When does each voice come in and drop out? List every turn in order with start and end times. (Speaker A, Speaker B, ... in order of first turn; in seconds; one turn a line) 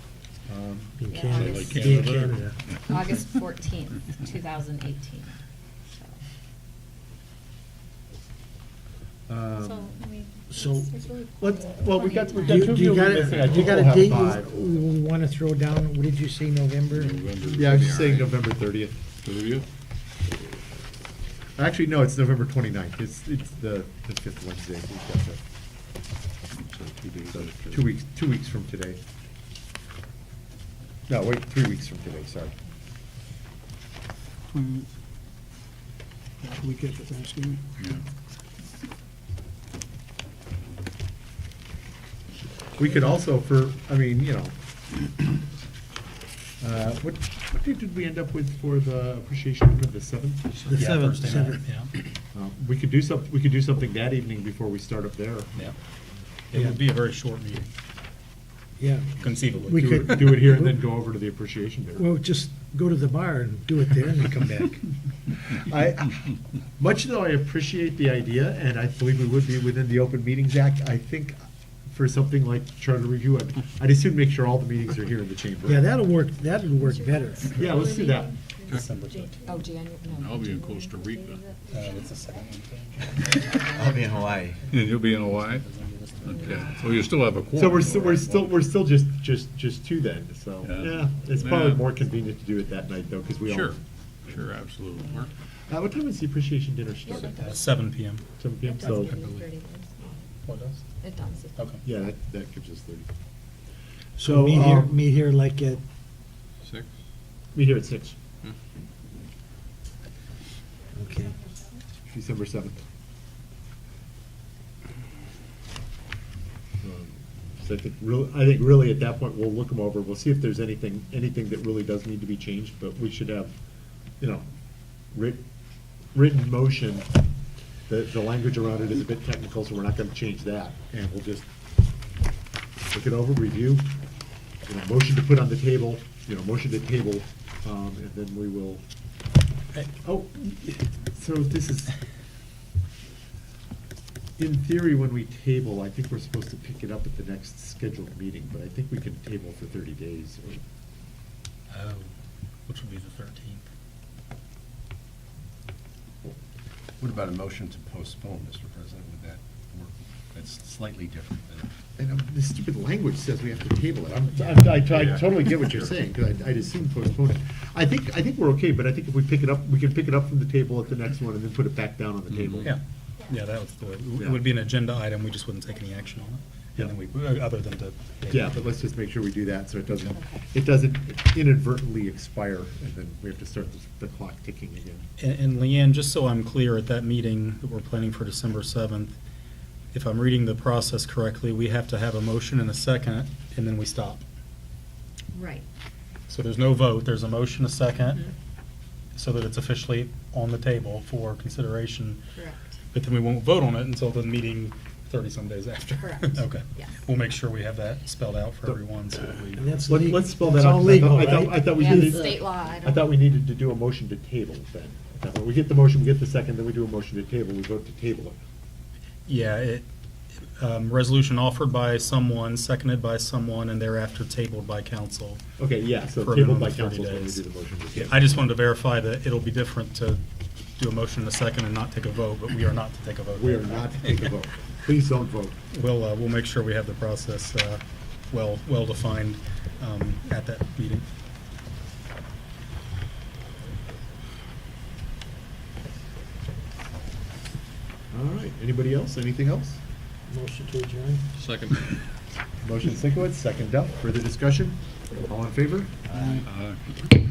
Speaker A: 0.5-1.0
Speaker B: 1.0-2.5
Speaker C: 1.1-1.9
Speaker D: 1.3-2.5
Speaker C: 2.9-5.3
Speaker A: 9.3-9.9
Speaker C: 9.6-12.8
Speaker B: 10.5-10.9
Speaker A: 11.4-14.8
Speaker B: 12.5-17.5
Speaker D: 16.9-18.4
Speaker A: 17.5-18.9
Speaker D: 19.2-19.6
Speaker A: 21.6-25.4
Speaker D: 26.6-27.9
Speaker A: 27.3-29.0
Speaker A: 31.1-32.5
Speaker B: 36.5-37.6
Speaker A: 42.8-44.5
Speaker A: 46.6-50.5
Speaker E: 50.6-51.9
Speaker B: 50.7-51.6
Speaker A: 52.3-55.7
Speaker E: 56.5-57.7
Speaker B: 58.8-60.8
Speaker E: 59.2-60.3
Speaker A: 59.7-62.1
Speaker B: 62.0-64.8
Speaker A: 65.5-75.9
Speaker B: 75.6-77.6
Speaker A: 77.5-78.4
Speaker C: 77.5-78.7
Speaker E: 78.7-79.5
Speaker C: 79.5-81.7
Speaker D: 80.1-81.5
Speaker E: 81.7-83.9
Speaker A: 83.8-84.5
Speaker D: 84.7-85.7
Speaker E: 85.5-86.7
Speaker D: 86.2-88.3
Speaker C: 86.3-86.7
Speaker A: 87.5-93.8
Speaker D: 90.6-91.9
Speaker D: 93.5-95.3
Speaker A: 95.7-97.5
Speaker C: 97.0-97.7
Speaker E: 97.4-98.2
Speaker A: 98.4-99.2
Speaker C: 98.6-100.1
Speaker E: 98.9-99.4
Speaker E: 100.5-100.8
Speaker C: 101.0-101.7
Speaker A: 101.8-103.1
Speaker B: 104.2-105.8
Speaker A: 104.2-104.9
Speaker A: 107.5-108.2
Speaker B: 111.0-111.4
Speaker A: 112.1-112.8
Speaker A: 116.8-123.5
Speaker A: 124.2-124.5
Speaker A: 125.1-125.4
Speaker A: 126.1-127.1
Speaker A: 127.9-131.5
Speaker A: 132.9-133.8
Speaker A: 134.7-138.8
Speaker A: 139.9-141.9
Speaker A: 144.4-150.6
Speaker E: 151.7-152.1
Speaker E: 152.7-153.7
Speaker F: 157.0-161.7
Speaker A: 162.0-172.8
Speaker E: 172.6-178.6
Speaker A: 178.3-185.1
Speaker C: 180.1-180.4
Speaker E: 185.2-189.2
Speaker E: 189.9-194.2
Speaker C: 195.3-195.7
Speaker E: 196.3-198.3
Speaker E: 199.2-202.2
Speaker C: 202.3-202.6
Speaker E: 202.9-209.7
Speaker C: 206.0-207.0
Speaker B: 209.6-212.2
Speaker A: 209.9-218.4
Speaker C: 211.7-213.1
Speaker E: 219.3-219.9
Speaker E: 220.6-225.4
Speaker A: 225.6-228.3
Speaker E: 226.2-227.4
Speaker E: 227.9-230.2
Speaker E: 230.8-234.3
Speaker A: 233.4-235.6
Speaker E: 235.7-241.1
Speaker A: 248.1-249.8
Speaker B: 250.3-251.3
Speaker D: 251.4-251.8
Speaker A: 252.6-256.0
Speaker D: 256.4-256.8